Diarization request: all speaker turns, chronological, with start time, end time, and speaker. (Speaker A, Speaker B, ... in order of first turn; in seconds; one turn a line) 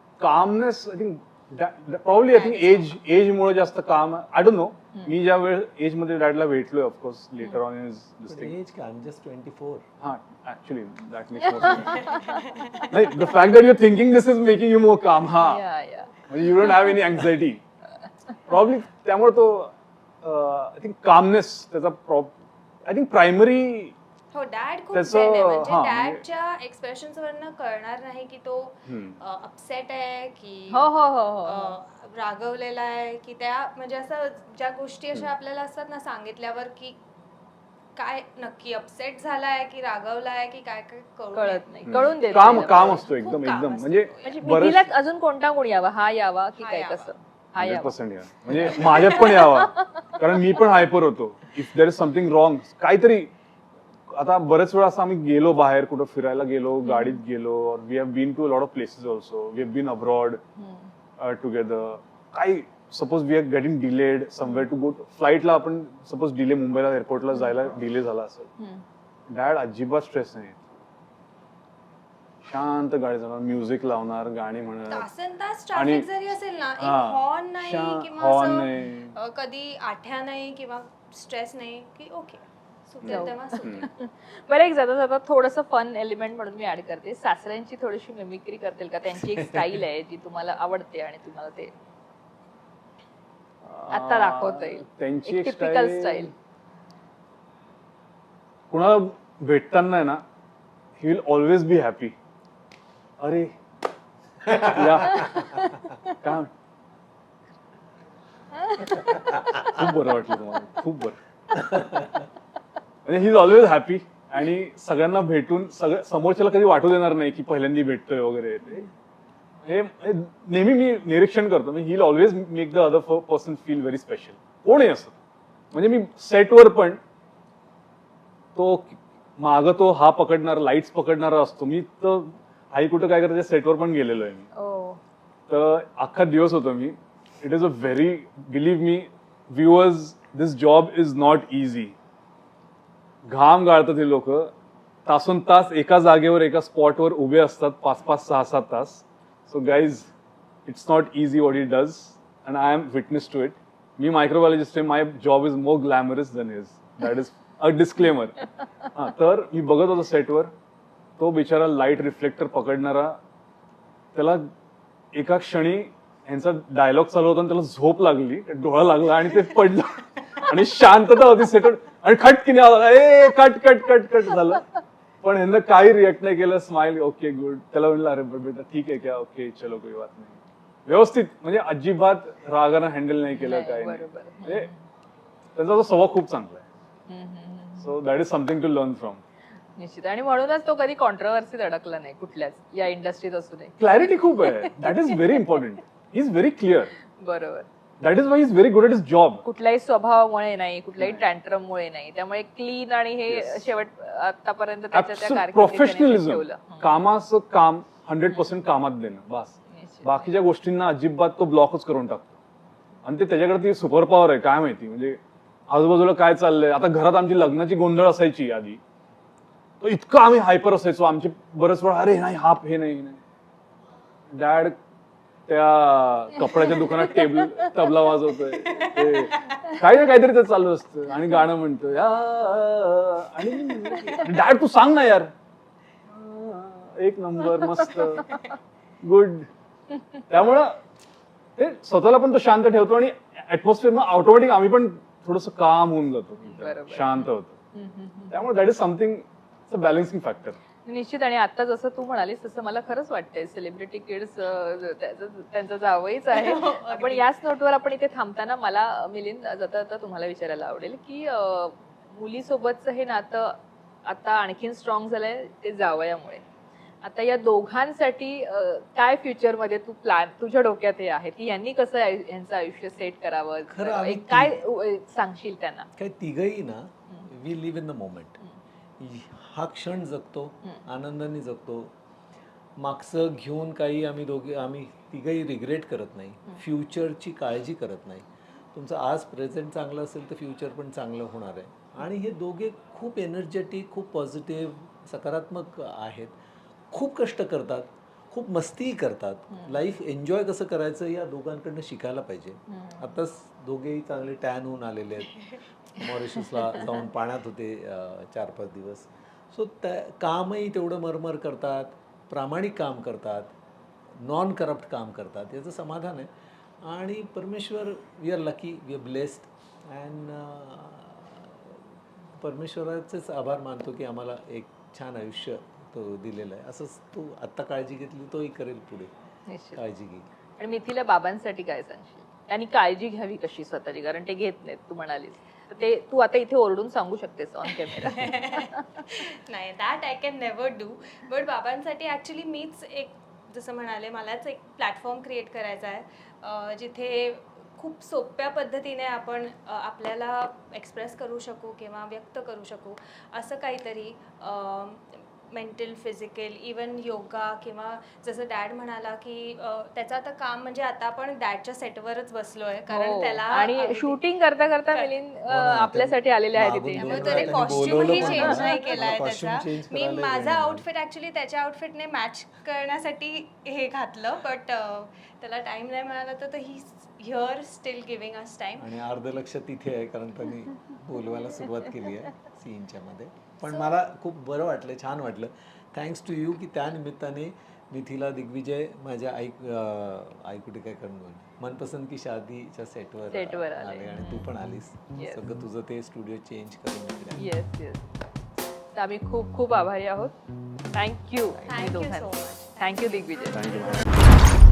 Speaker A: 0.2-8.6
Speaker B: 2.3-2.9
Speaker C: 8.3-9.8
Speaker A: 10.0-12.3
Speaker D: 11.6-12.8
Speaker A: 12.8-15.6
Speaker D: 15.3-16.1
Speaker A: 16.2-17.6
Speaker A: 18.5-22.3
Speaker A: 22.9-23.9
Speaker B: 24.3-30.9
Speaker A: 24.9-26.2
Speaker A: 28.9-29.2
Speaker D: 30.7-31.8
Speaker B: 31.4-37.0
Speaker B: 37.9-44.6
Speaker D: 41.3-43.1
Speaker A: 41.9-44.9
Speaker D: 44.2-48.0
Speaker B: 46.6-47.1
Speaker A: 47.6-53.3
Speaker D: 48.5-49.1
Speaker B: 48.9-49.4
Speaker A: 54.1-60.4
Speaker D: 56.8-57.2
Speaker D: 60.5-60.9
Speaker A: 61.2-68.5
Speaker D: 68.6-68.8
Speaker A: 69.3-70.6
Speaker A: 72.4-75.1
Speaker B: 74.9-83.8
Speaker A: 75.7-76.1
Speaker A: 76.8-79.1
Speaker A: 83.0-83.9
Speaker D: 83.0-91.7
Speaker A: 93.6-96.3
Speaker D: 93.9-96.3
Speaker A: 98.7-100.2
Speaker A: 101.0-102.1
Speaker A: 103.2-103.5
Speaker A: 104.5-106.5
Speaker D: 108.8-109.1
Speaker A: 109.6-111.2
Speaker A: 113.0-118.9
Speaker A: 119.6-125.1
Speaker A: 125.7-127.0
Speaker A: 128.5-134.4
Speaker D: 134.5-135.0
Speaker A: 135.5-141.9
Speaker A: 143.2-144.5
Speaker A: 145.1-150.1
Speaker A: 150.7-158.4
Speaker A: 158.9-160.5
Speaker A: 161.2-163.2
Speaker A: 164.1-164.5
Speaker A: 165.1-174.7
Speaker A: 175.2-184.7
Speaker D: 183.3-184.8
Speaker A: 185.5-186.6
Speaker D: 187.1-187.9
Speaker A: 187.8-189.2
Speaker D: 189.8-195.4
Speaker A: 193.8-196.9
Speaker D: 197.2-197.7
Speaker A: 198.0-199.4
Speaker D: 199.4-207.0
Speaker A: 201.0-201.2
Speaker A: 203.3-203.8
Speaker A: 204.9-212.3
Speaker D: 209.7-210.3
Speaker A: 213.0-218.8
Speaker A: 219.8-223.2
Speaker A: 224.3-224.7
Speaker A: 225.5-235.3
Speaker D: 226.4-228.2
Speaker B: 228.8-229.6
Speaker D: 233.8-234.2
Speaker A: 236.1-238.5
Speaker D: 237.8-238.4
Speaker A: 239.0-239.5
Speaker A: 240.3-240.8
Speaker A: 241.6-247.6
Speaker D: 246.4-248.3
Speaker A: 248.3-250.6
Speaker D: 250.8-266.4
Speaker B: 256.3-257.3
Speaker D: 267.0-275.9
Speaker C: 273.7-274.6
Speaker C: 276.0-278.4
Speaker C: 279.0-281.9
Speaker C: 282.8-296.3
Speaker C: 296.9-313.5
Speaker D: 299.5-299.8
Speaker D: 302.7-303.2
Speaker D: 306.4-306.9
Speaker C: 314.2-316.3
Speaker C: 316.8-321.8
Speaker C: 322.4-329.1
Speaker D: 329.5-329.8
Speaker C: 329.7-330.3
Speaker D: 330.6-338.8
Speaker B: 337.9-364.2
Speaker D: 362.9-368.9
Speaker C: 365.5-370.9
Speaker B: 366.9-378.9
Speaker C: 378.8-397.5
Speaker B: 383.6-384.0
Speaker D: 393.3-394.5
Speaker D: 395.1-395.4
Speaker D: 397.4-398.0
Speaker D: 398.9-400.3
Speaker D: 400.9-403.7
Speaker C: 401.5-402.0
Speaker B: 401.6-403.8
Speaker A: 403.5-404.1